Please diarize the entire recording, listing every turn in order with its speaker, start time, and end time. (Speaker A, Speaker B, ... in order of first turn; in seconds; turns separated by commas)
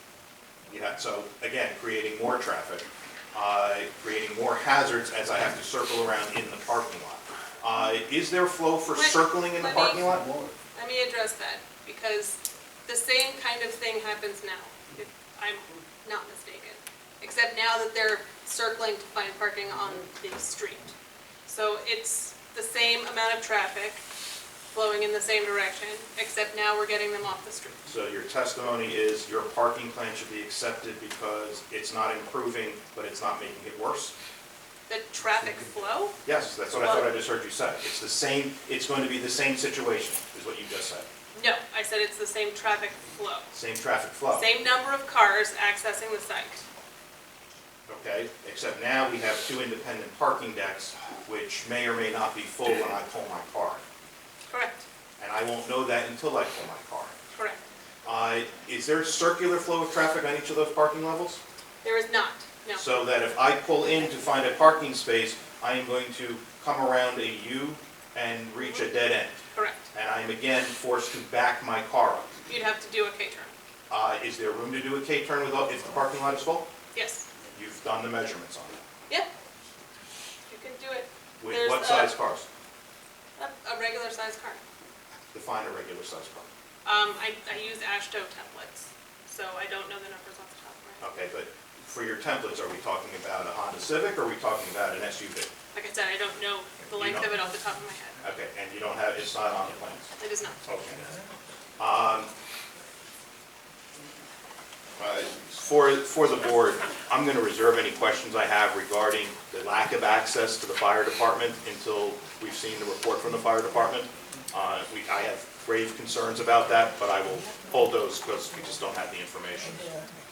Speaker A: 0.7-10.4, Speaker B: 8.9-10.1, Speaker B: 10.8-20.9, Speaker B: 21.5-24.0, Speaker B: 24.7-27.8, Speaker A: 27.9-34.1, Speaker B: 34.9-36.2, Speaker A: 36.2-41.1, Speaker B: 36.8-37.1, Speaker B: 41.3-43.5, Speaker A: 43.5-44.5, Speaker B: 44.3-46.6, Speaker A: 47.9-53.8, Speaker B: 54.5-54.9, Speaker A: 55.2-57.1, Speaker B: 57.3-57.6, Speaker A: 58.0-61.4, Speaker B: 61.8-62.9, Speaker A: 62.8-69.4, Speaker B: 69.5-69.8, Speaker A: 69.9-72.3, Speaker B: 72.5-73.5, Speaker A: 73.9-76.7, Speaker B: 76.9-77.3, Speaker A: 77.5-78.8, Speaker B: 80.5-82.2, Speaker A: 81.4-82.5, Speaker B: 83.4-84.6, Speaker A: 85.3-86.5, Speaker B: 86.8-91.1, Speaker A: 91.0-95.5, Speaker B: 95.7-98.2, Speaker A: 97.0-97.3, Speaker A: 98.2-100.1, Speaker B: 100.2-100.6, Speaker A: 100.7-101.1, Speaker A: 101.8-102.3, Speaker A: 105.0-119.8